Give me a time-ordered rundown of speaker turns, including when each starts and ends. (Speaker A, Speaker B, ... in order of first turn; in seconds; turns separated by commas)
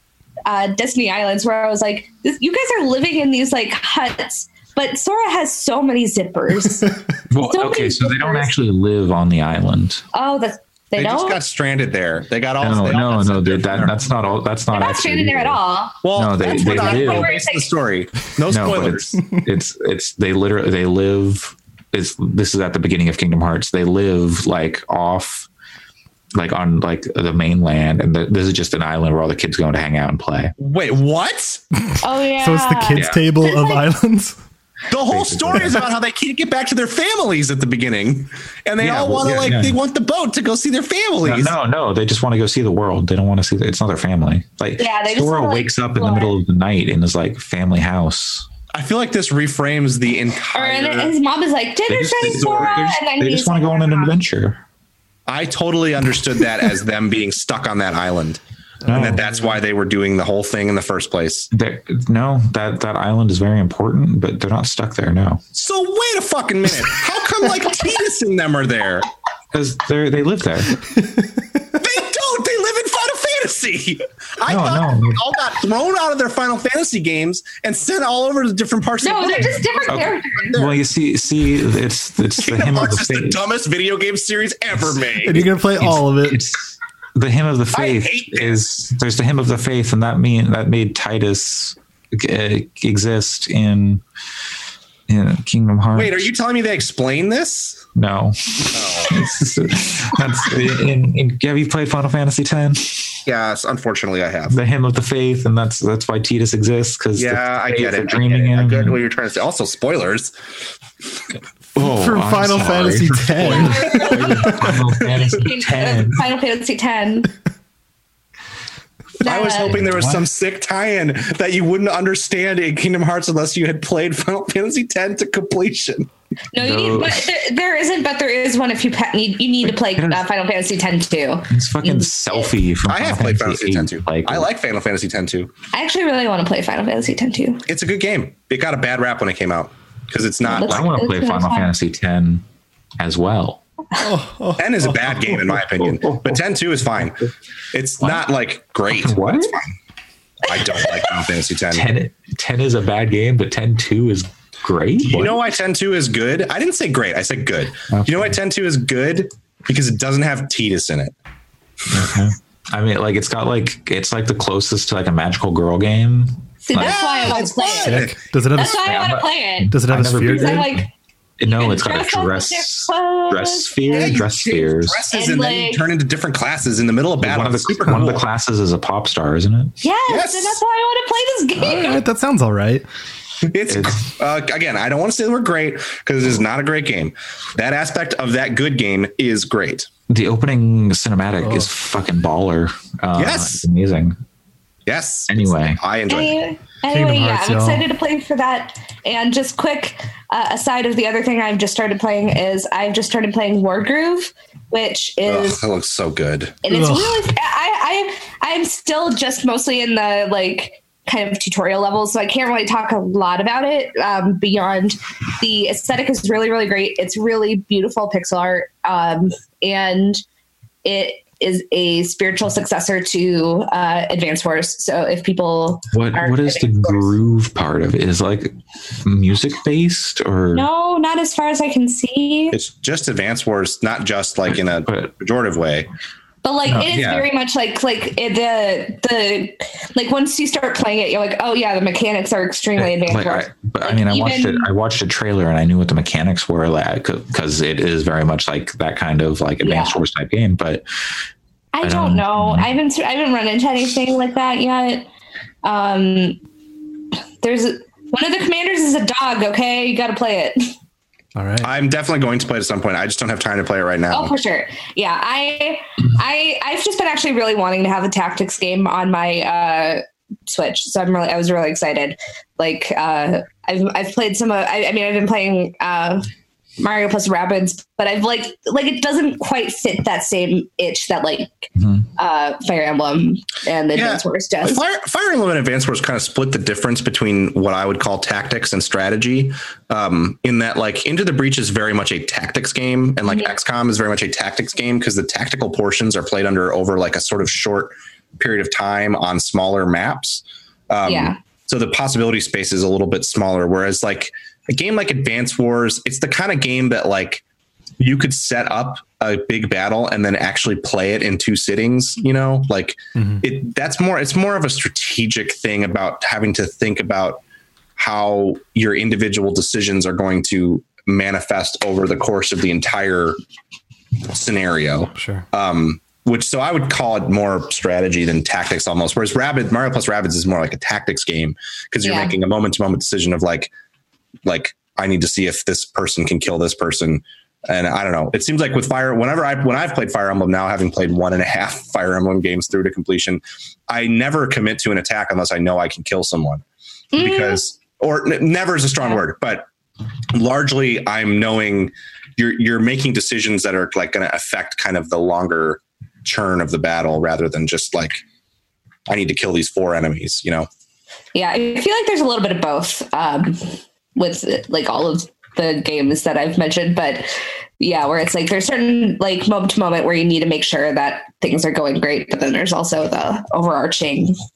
Speaker A: 0.4-8.5, Speaker B: 7.3-10.0, Speaker A: 10.1-11.4, Speaker C: 11.0-14.0, Speaker B: 12.6-15.6, Speaker A: 14.7-17.7, Speaker C: 16.0-19.2, Speaker B: 16.1-17.3, Speaker B: 18.5-25.5, Speaker B: 26.3-30.5, Speaker C: 30.6-31.6, Speaker D: 31.9-34.4, Speaker A: 32.0-33.8, Speaker B: 32.9-33.2, Speaker C: 34.9-41.5, Speaker B: 35.1-35.8, Speaker B: 38.8-39.8, Speaker B: 41.2-48.5, Speaker A: 44.8-46.3, Speaker C: 48.7-51.1, Speaker A: 50.5-54.1, Speaker B: 51.9-54.6, Speaker C: 55.3-61.5, Speaker B: 58.8-59.5, Speaker B: 61.5-65.4, Speaker C: 65.5-69.1, Speaker B: 69.5-70.8, Speaker C: 71.8-80.8, Speaker B: 74.5-75.2, Speaker A: 79.0-80.6, Speaker B: 79.9-83.4, Speaker C: 82.4-85.4, Speaker D: 85.2-86.4, Speaker B: 85.8-94.0, Speaker C: 87.7-88.6, Speaker B: 95.1-96.3, Speaker C: 95.9-97.9, Speaker B: 97.9-103.2, Speaker C: 98.7-99.5, Speaker C: 103.2-104.6, Speaker B: 104.5-109.0, Speaker C: 107.2-110.3, Speaker B: 111.7-116.3, Speaker D: 111.8-114.7, Speaker C: 113.4-115.3, Speaker A: 113.5-117.3, Speaker A: 119.2-119.9, Speaker C: 119.2-126.1, Speaker B: 119.6-120.2, Speaker A: 126.5-132.5, Speaker B: 126.5-127.3, Speaker B: 131.5-134.5, Speaker C: 132.9-135.5, Speaker A: 135.7-137.6, Speaker C: 137.7-141.0, Speaker A: 140.4-141.7, Speaker B: 140.6-142.4, Speaker B: 143.0-143.6, Speaker D: 144.0-145.3, Speaker C: 144.6-149.8, Speaker B: 145.7-146.4, Speaker B: 147.0-147.3, Speaker B: 148.9-149.5, Speaker C: 150.4-151.9, Speaker B: 151.7-155.4, Speaker C: 155.0-161.1, Speaker B: 157.9-158.4, Speaker B: 161.9-168.1, Speaker A: 166.7-170.9, Speaker C: 166.8-168.1, Speaker D: 167.8-169.0, Speaker B: 168.6-170.8, Speaker D: 169.7-170.7, Speaker B: 171.4-175.0, Speaker A: 171.4-174.2, Speaker C: 173.9-178.2, Speaker A: 175.1-175.8, Speaker B: 177.2-179.7, Speaker A: 179.8-182.0, Speaker C: 180.1-180.6, Speaker D: 181.6-182.8, Speaker C: 183.4-189.9, Speaker B: 183.7-184.1, Speaker B: 190.1-194.1, Speaker D: 191.4-191.7, Speaker C: 193.2-193.6, Speaker C: 194.8-196.4, Speaker B: 195.3-195.8, Speaker A: 196.1-205.6, Speaker D: 196.9-197.9, Speaker C: 205.3-206.6, Speaker A: 206.6-220.2, Speaker D: 206.7-207.3, Speaker A: 220.8-227.1, Speaker B: 225.9-228.5, Speaker B: 229.0-230.7, Speaker A: 230.5-232.6, Speaker C: 232.5-235.9, Speaker B: 234.8-235.1, Speaker A: 236.4-244.7, Speaker B: 236.7-237.2, Speaker C: 236.9-237.2, Speaker B: 242.8-250.8, Speaker A: 249.6-250.0, Speaker A: 251.7-255.1, Speaker B: 251.8-252.7, Speaker A: 255.6-256.4, Speaker A: 257.4-260.7, Speaker D: 261.3-261.7, Speaker C: 261.6-264.3, Speaker A: 264.1-276.2, Speaker A: 276.8-284.8, Speaker B: 281.8-282.1, Speaker C: 283.9-307.4, Speaker A: 293.2-293.5, Speaker A: 301.0-301.4, Speaker C: 308.0-317.4, Speaker D: 313.1-313.4, Speaker C: 318.0-323.4, Speaker C: 324.3-333.7, Speaker D: 325.1-325.4, Speaker A: 332.0-332.3, Speaker C: 334.4-346.6, Speaker A: 347.1-347.6, Speaker C: 347.1-349.7, Speaker C: 350.3-358.2, Speaker C: 359.1-360.7, Speaker A: 361.3-374.3